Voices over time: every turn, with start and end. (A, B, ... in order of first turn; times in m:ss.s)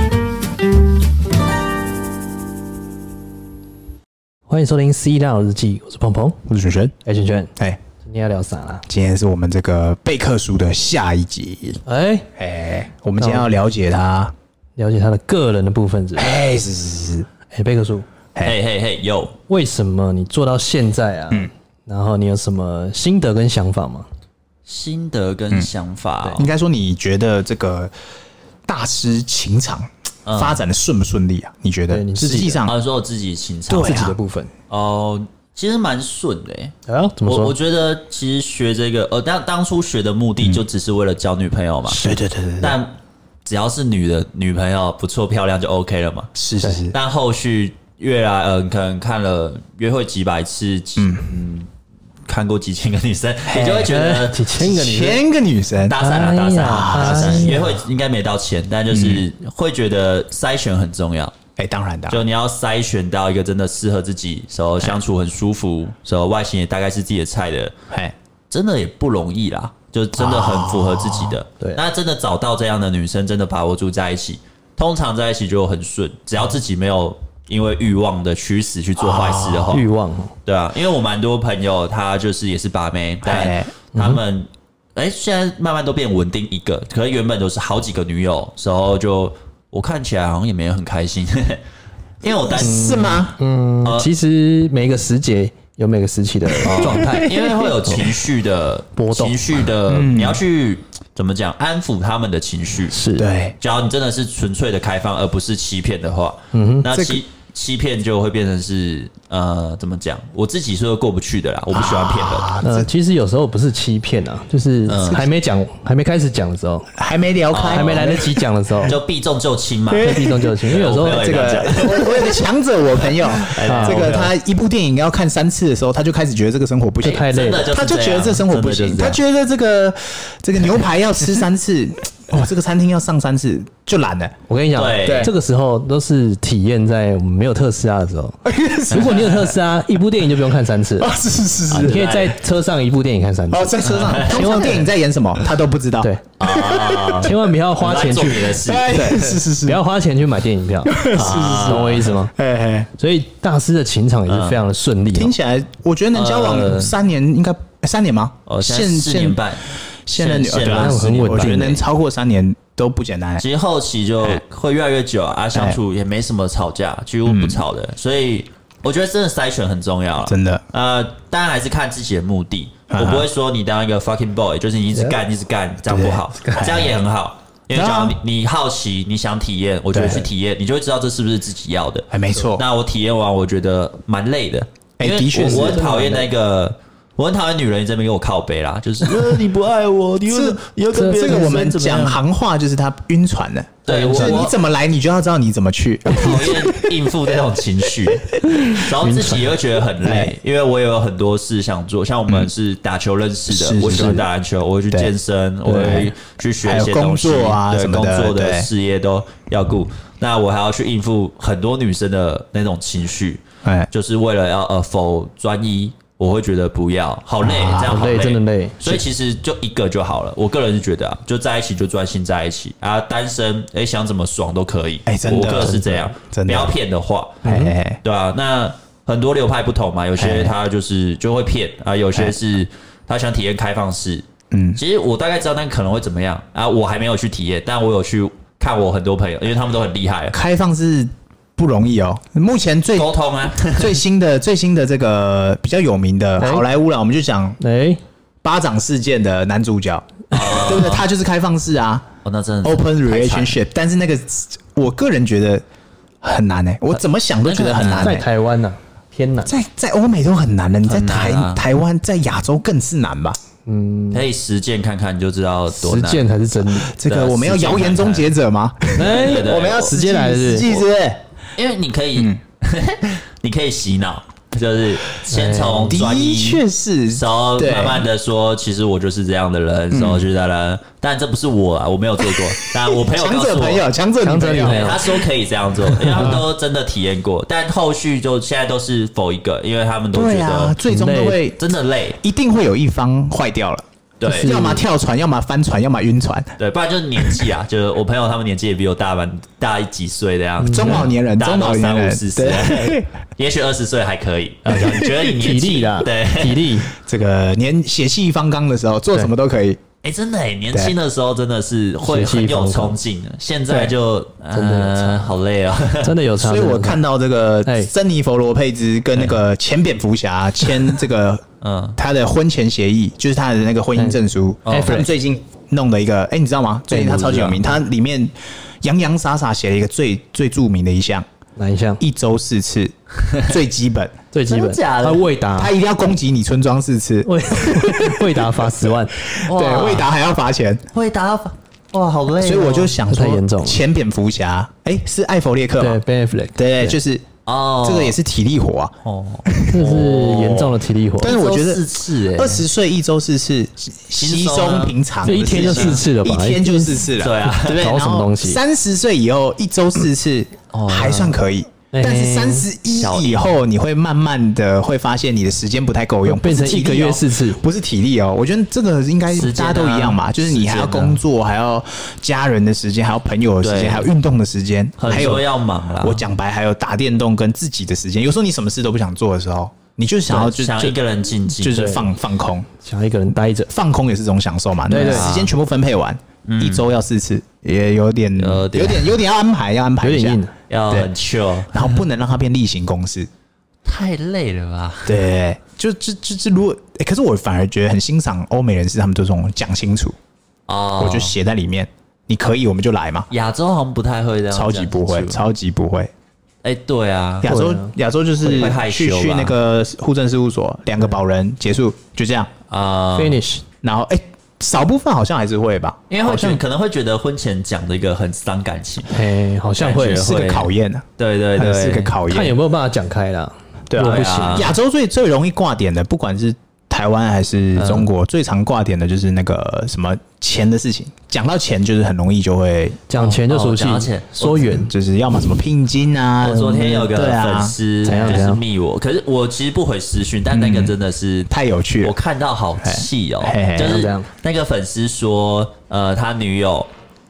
0:04.5-0:06.4 A
0:06.4-0:06.9 B
0:07.0-0:08.8 A
0:08.8-0:11.8 B
0:11.8-0:12.3 A
0:12.4-0:14.3 B
0:13.2-0:13.5 A
0:14.8-0:16.4 A
0:16.2-0:17.3 B
0:17.5-0:18.0 A
0:18.4-0:19.3 C
0:19.5-0:24.1 A
0:24.6-0:26.5 C
0:26.2-0:27.9 B
0:28.6-0:32.8 B
0:30.2-0:30.6 C
0:31.9-0:32.6 A
0:32.6-0:34.0 C
0:33.7-0:34.2 B
0:33.7-0:34.5 A
0:34.7-0:36.7 C
0:36.9-0:37.5 A
0:37.2-0:42.1 C
0:41.9-0:42.8 B
0:42.6-0:42.9 C
0:43.4-0:46.3 C
0:46.3-0:47.0 B
0:46.9-0:51.7 C
0:51.0-0:51.3 B
0:52.2-0:54.4 C
0:53.5-0:53.9 B
0:53.5-0:55.2 A
0:54.6-0:56.0 B
0:55.9-1:01.3 C
0:56.0-0:57.8 A
0:56.6-0:57.6 B
0:58.9-0:59.2 B
1:01.6-1:02.2 B
1:02.1-1:07.7 C
1:08.5-1:19.8 C
1:10.2-1:11.4 B
1:19.0-1:19.8 B
1:19.7-1:20.3 A
1:20.4-1:31.6 C
1:23.2-1:23.7 B
1:23.9-1:24.2 A
1:32.2-1:33.2 C
1:32.3-1:33.4 B
1:32.6-1:37.6 A
1:33.8-1:34.1 C
1:36.5-1:38.1 B
1:36.6-1:43.0 C
1:39.0-1:39.6 A
1:39.9-1:40.4 B
1:42.9-1:43.3 A
1:43.2-1:43.6 B
1:43.6-1:52.5 C
1:46.5-1:46.9 A
1:46.9-1:47.2 B
1:51.7-1:52.9 B
1:52.6-1:56.9 A
1:54.9-1:55.2 C
1:57.0-1:58.3 B
1:57.5-1:58.3 C
1:57.7-1:59.0 A
1:58.8-2:02.4 C
1:59.9-2:14.3 B
1:59.9-2:01.8 A
2:03.1-2:04.3 C
2:03.6-2:04.2 A
2:07.0-2:07.7 A
2:07.0-2:09.2 C
2:14.5-2:18.4 A
2:14.7-2:15.3 C
2:15.0-2:15.3 B
2:18.4-2:19.6 B
2:18.9-2:21.1 A
2:21.0-2:22.0 B
2:21.7-2:22.4 C
2:21.8-2:24.9 A
2:23.5-2:27.3 B
2:23.8-2:24.8 C
2:26.4-2:29.4 C
2:27.2-2:32.3 A
2:28.6-2:29.8 B
2:30.8-2:32.9 B
2:31.1-2:32.1 C
2:33.0-2:35.3 A
2:34.2-2:34.6 C
2:35.1-2:39.4 B
2:36.1-2:36.9 C
2:38.4-2:41.7 C
2:40.0-2:43.4 B
2:40.6-2:41.8 A
2:43.4-3:12.2 C
2:45.5-2:45.8 B
2:47.2-2:47.6 B
2:50.2-2:50.6 B
2:52.9-2:53.3 B
2:55.8-2:56.9 B
2:57.7-2:58.2 B
2:59.9-3:00.3 B
3:02.1-3:02.6 B
3:05.0-3:05.9 B
3:05.4-3:06.3 A
3:10.3-3:16.9 B
3:11.0-3:11.7 A
3:13.8-3:14.5 C
3:13.9-3:14.5 A
3:16.0-3:47.5 C
3:18.1-3:18.8 B
3:19.0-3:19.4 A
3:20.0-3:20.3 B
3:23.5-3:24.2 B
3:23.9-3:24.2 A
3:25.7-3:26.1 A
3:25.7-3:26.1 B
3:26.6-3:28.7 B
3:33.6-3:33.9 B
3:37.4-3:38.0 B
3:37.7-3:39.0 A
3:45.1-3:46.8 B
3:45.6-3:46.0 A
3:47.4-3:47.7 A
3:47.4-3:48.0 B
3:48.0-4:00.4 C
3:50.2-3:50.5 B
3:54.5-3:54.8 B
4:00.3-4:03.1 B
4:03.0-4:04.0 C
4:03.7-4:07.6 B
4:06.4-4:06.7 A
4:07.6-4:08.0 A
4:08.4-4:12.0 B
4:10.3-4:11.1 C
4:12.2-4:13.5 C
4:12.6-4:15.6 B
4:16.2-4:18.2 B
4:17.4-4:18.2 C
4:18.0-4:19.5 A
4:19.5-4:23.4 B
4:20.8-4:21.6 C
4:23.6-4:24.2 A
4:24.1-4:26.2 C
4:25.7-4:26.9 A
4:26.8-4:31.2 B
4:27.0-4:28.3 C
4:29.0-4:30.7 A
4:29.0-4:29.9 C
4:31.6-4:43.9 C
4:35.3-4:36.0 A
4:35.9-4:38.0 B
4:39.9-4:40.3 B
4:42.2-4:45.3 B
4:44.2-4:45.0 A
4:44.5-4:50.8 C
4:46.0-4:46.4 B
4:46.1-4:46.4 A
4:50.1-4:51.6 B
4:50.9-4:51.4 A
4:51.6-4:52.2 C
4:52.2-4:56.5 B
4:54.2-4:54.6 C
4:54.2-4:54.8 A
4:56.6-5:06.7 C
4:57.2-4:57.5 B
5:00.6-5:01.1 A
5:00.7-5:03.1 B
5:04.7-5:06.9 A
5:04.7-5:05.3 B
5:07.0-5:09.8 B
5:10.0-5:16.1 C
5:12.0-5:13.0 A
5:13.7-5:13.9 A
5:14.5-5:15.4 A
5:16.0-5:17.0 A
5:16.4-5:21.4 B
5:17.6-5:17.9 A
5:21.6-5:22.0 C
5:22.0-5:31.2 B
5:24.0-5:25.1 A
5:24.7-5:25.0 C
5:26.9-5:27.7 A
5:31.6-5:32.0 A
5:32.0-5:34.1 B
5:34.3-5:35.7 A
5:34.5-5:35.3 C
5:35.6-5:40.8 B
5:37.2-5:39.1 A
5:39.4-5:40.1 C
5:40.9-5:42.9 C
5:42.4-5:46.0 B
5:43.1-5:43.8 A
5:45.8-5:47.0 A
5:46.6-5:47.3 B
5:47.4-5:48.2 C
5:47.8-5:48.9 B
5:49.0-5:52.7 C
5:49.5-5:49.8 B
5:49.7-5:51.4 A
5:51.2-6:21.0 B
5:54.2-5:56.0 C
5:55.2-5:57.1 A
5:57.2-5:57.9 C
5:57.7-5:58.6 A
6:00.7-6:01.3 C
6:01.9-6:02.7 A
6:03.0-6:03.6 C
6:06.2-6:07.6 A
6:09.3-6:11.2 C
6:13.6-6:14.1 C
6:15.0-6:16.2 C
6:20.3-6:21.9 C
6:21.5-6:22.7 B
6:21.7-6:22.1 A
6:22.8-6:23.7 A
6:23.7-6:31.1 B
6:24.9-6:25.3 A
6:24.9-6:25.5 C
6:26.4-6:26.8 C
6:28.4-6:29.1 C
6:30.0-6:30.5 A
6:30.7-6:32.0 C
6:31.7-6:33.3 B
6:33.8-6:35.2 C
6:35.0-6:40.2 B
6:40.7-6:41.3 C
6:41.0-6:43.3 B
6:43.3-6:45.4 C
6:44.5-6:46.1 B
6:46.6-6:47.5 C
6:47.4-6:52.5 B
6:47.4-6:47.9 A
6:48.4-6:49.5 C
6:52.7-6:53.4 C
6:53.2-6:53.6 A
6:53.8-6:56.6 B
6:56.1-6:59.1 C
6:59.1-7:00.3 A
6:59.8-7:02.1 C
7:00.1-7:02.5 B
7:02.2-7:04.7 A
7:03.9-7:13.0 B
7:04.0-7:04.7 C
7:07.8-7:08.1 C
7:13.1-7:14.9 A
7:13.2-7:14.8 C
7:14.8-7:18.4 B
7:16.4-7:21.5 C
7:18.0-7:18.6 A
7:20.5-7:20.9 B
7:21.5-7:22.2 B
7:22.0-7:26.9 C
7:22.8-7:24.0 B
7:23.8-7:24.3 A